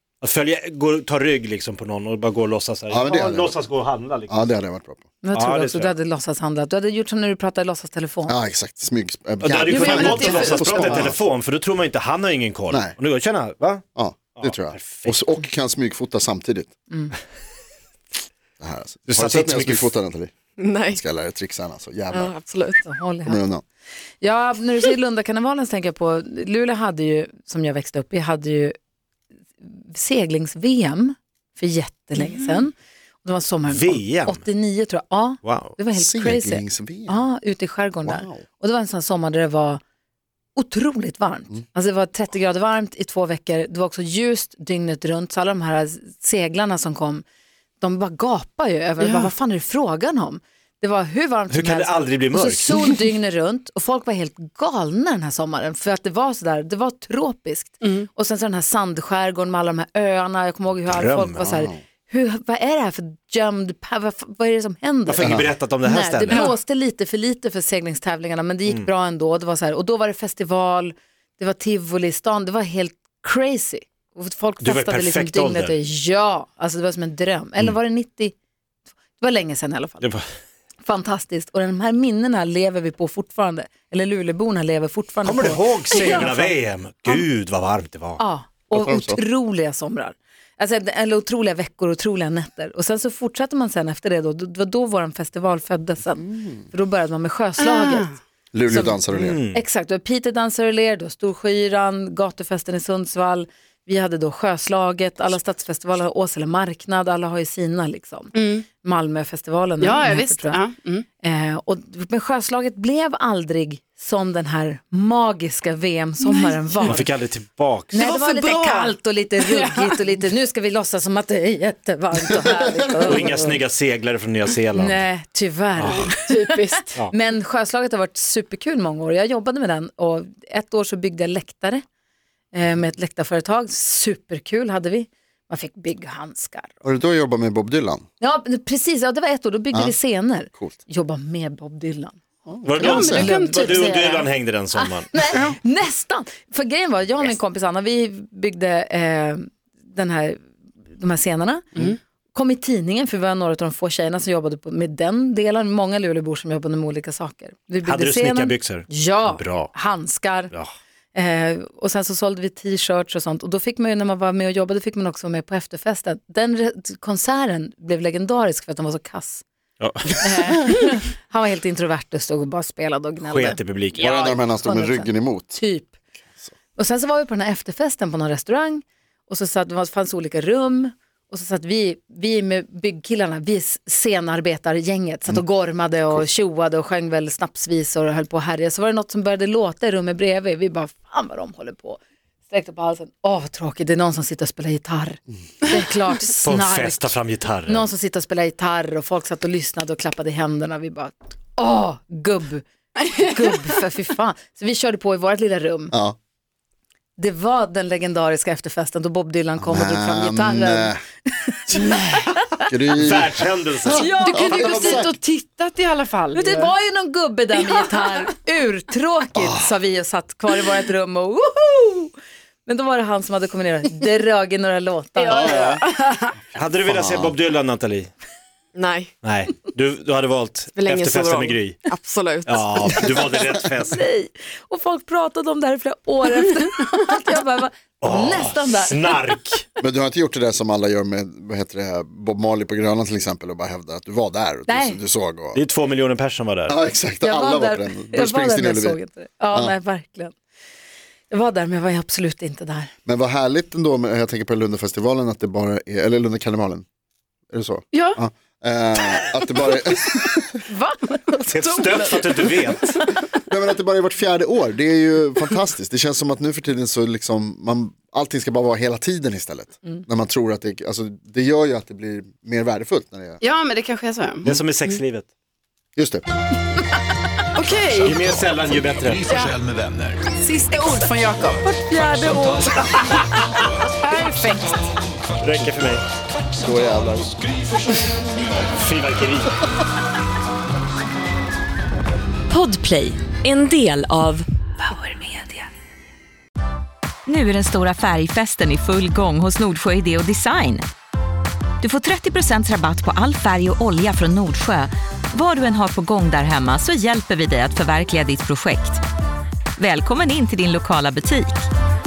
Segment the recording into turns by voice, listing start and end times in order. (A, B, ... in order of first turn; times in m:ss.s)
0:00.2-0:04.3 A
0:02.9-0:03.6 B
0:04.3-0:05.1 B
0:05.2-0:08.4 C
0:05.3-0:05.9 A
0:08.3-0:11.2 B
0:09.4-0:15.4 A
0:09.7-0:11.0 D
0:10.3-0:10.6 E
0:12.7-0:13.0 B
0:13.9-0:16.7 B
0:18.6-0:20.3 B
0:19.1-0:19.9 A
0:20.6-0:21.0 E
0:20.9-0:22.3 B
0:22.1-0:22.9 E
0:22.8-0:23.4 C
0:23.2-0:23.6 B
0:24.2-0:28.8 C
0:29.6-0:39.8 C
0:32.2-0:32.6 D
0:33.7-0:34.4 A
0:35.4-0:35.8 A
0:35.9-0:37.2 B
0:38.0-0:38.4 B
0:40.5-0:47.2 C
0:47.8-1:18.3 C
0:49.0-0:49.3 D
0:51.5-0:53.0 A
0:57.8-0:58.1 D
1:00.8-1:01.5 A
1:01.5-1:01.8 B
1:05.1-1:06.5 A
1:06.3-1:06.5 D
1:14.6-1:15.7 A
1:19.2-1:20.1 C
1:20.8-1:26.5 C
1:25.2-1:28.2 A
1:28.2-1:38.1 C
1:28.7-1:29.2 B
1:37.6-1:38.1 D
1:38.5-1:39.4 B
1:38.7-1:39.0 C
1:39.1-1:39.6 A
1:39.5-1:50.6 C
1:48.3-1:48.6 D
1:49.8-1:51.0 D
1:51.2-1:57.0 C
1:56.2-1:57.0 D
1:56.8-1:58.0 A
1:57.9-2:03.6 C
1:58.0-2:00.1 D
2:03.0-2:05.0 A
2:04.7-2:11.8 C
2:05.8-2:06.1 A
2:06.1-2:07.0 D
2:12.5-2:16.7 C
2:16.8-2:18.0 B
2:18.2-2:22.2 C
2:22.4-2:23.3 B
2:22.6-2:25.4 A
2:22.8-2:24.3 D
2:23.1-2:24.2 C
2:24.7-2:30.4 C
2:30.9-2:31.7 C
2:32.3-2:40.5 C
2:37.8-2:39.7 A
2:41.1-2:49.4 C
2:49.8-2:50.7 A
2:50.2-2:55.9 C
2:53.2-2:54.2 A
2:54.0-2:55.6 B
2:56.7-3:25.9 C
3:16.4-3:17.9 A
3:27.2-3:32.4 C
3:29.6-3:31.0 B
3:32.7-3:35.1 B
3:32.9-3:34.8 A
3:33.9-3:35.0 C
3:34.1-3:36.7 D
3:36.3-3:42.1 C
3:37.7-3:38.2 D
3:39.3-3:39.7 B
3:42.6-3:45.7 C
3:45.2-3:46.4 D
3:45.3-3:45.8 B
3:46.5-3:48.1 A
3:46.9-3:47.3 B
3:48.7-3:49.1 E
3:49.2-3:51.8 A
3:50.7-3:53.0 E
3:52.4-3:54.1 A
3:53.9-3:59.3 C
3:58.0-3:59.6 A
3:59.8-4:05.6 B
4:04.7-4:05.0 C
4:05.5-4:06.7 A
4:06.7-4:09.0 B
4:07.2-4:10.3 C
4:11.3-4:12.9 C
4:13.0-4:16.8 B
4:17.5-4:20.6 B
4:17.9-4:18.2 D
4:20.7-4:23.0 C
4:21.5-4:23.0 A
4:23.5-4:33.4 B
4:33.4-4:35.0 D
4:34.4-4:35.3 A
4:36.0-4:36.3 B
4:37.5-4:38.2 D
4:37.9-4:40.3 F
4:38.0-4:39.2 A
4:39.3-4:39.6 D
4:40.4-4:41.7 D
4:41.6-4:43.5 C
4:41.9-4:42.8 F
4:43.8-4:45.0 D
4:45.4-4:46.0 A
4:46.6-4:47.3 B
4:48.7-4:49.6 A
4:52.5-4:54.4 G
4:57.2-5:00.9 G
5:01.8-5:09.0 G
5:09.8-5:11.7 G